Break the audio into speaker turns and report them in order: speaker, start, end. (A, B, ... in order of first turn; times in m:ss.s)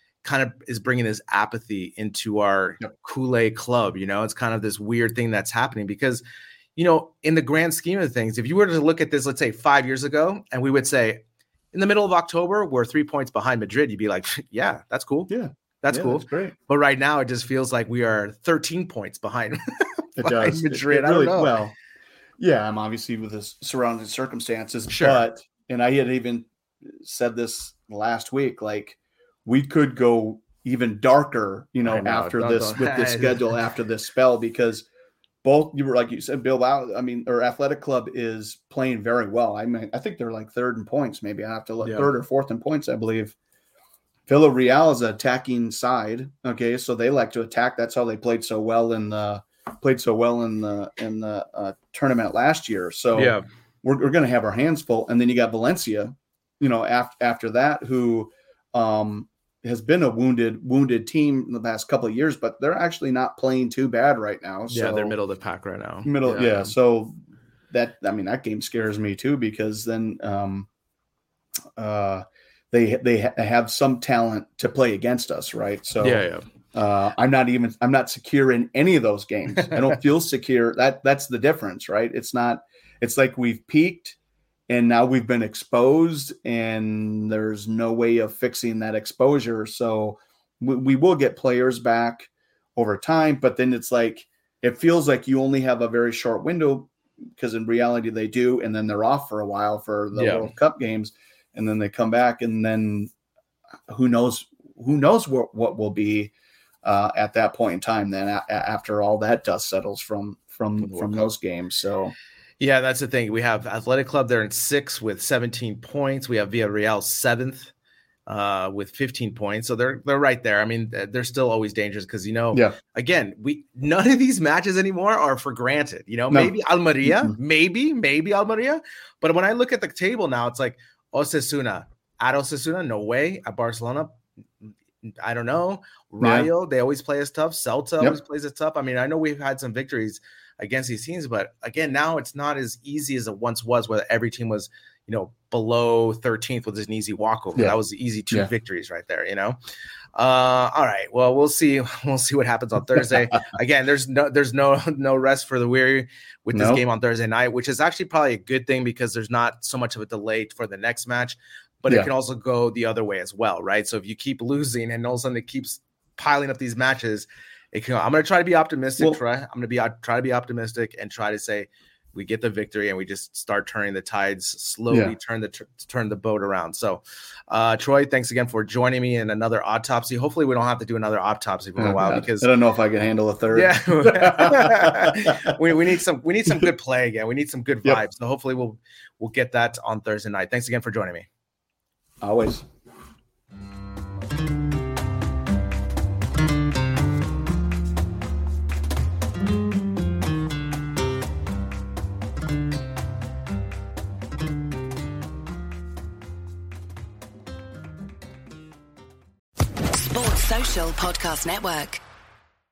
0:00.2-0:06.2 A
0:06.8-0:11.2 A
0:11.7-0:15.3 A
0:15.3-0:16.5 B
0:15.8-0:21.6 A
0:20.2-0:21.7 B
0:22.4-0:34.9 B
0:24.9-0:25.2 A
0:31.8-0:33.5 A
0:35.4-0:43.4 B
0:41.8-0:42.1 A
0:44.3-1:05.1 B
0:53.1-0:53.4 A
1:04.7-1:06.7 A
1:06.0-1:07.2 B
1:07.7-1:10.7 B
1:11.8-1:24.2 B
1:16.0-1:16.4 A
1:19.6-1:19.9 A
1:24.7-1:43.1 B
1:40.1-1:40.5 A
1:43.9-1:46.3 B
1:46.8-1:52.1 B
1:50.8-1:51.3 A
1:52.6-1:57.7 A
1:58.3-2:29.6 A
2:07.0-2:07.4 B
2:16.2-2:16.5 B
2:30.2-3:02.5 A
2:36.5-2:36.8 B
2:54.9-2:55.2 B
3:01.8-3:05.6 B
3:03.5-3:11.3 A
3:12.2-3:12.6 B
3:29.9-3:32.0 C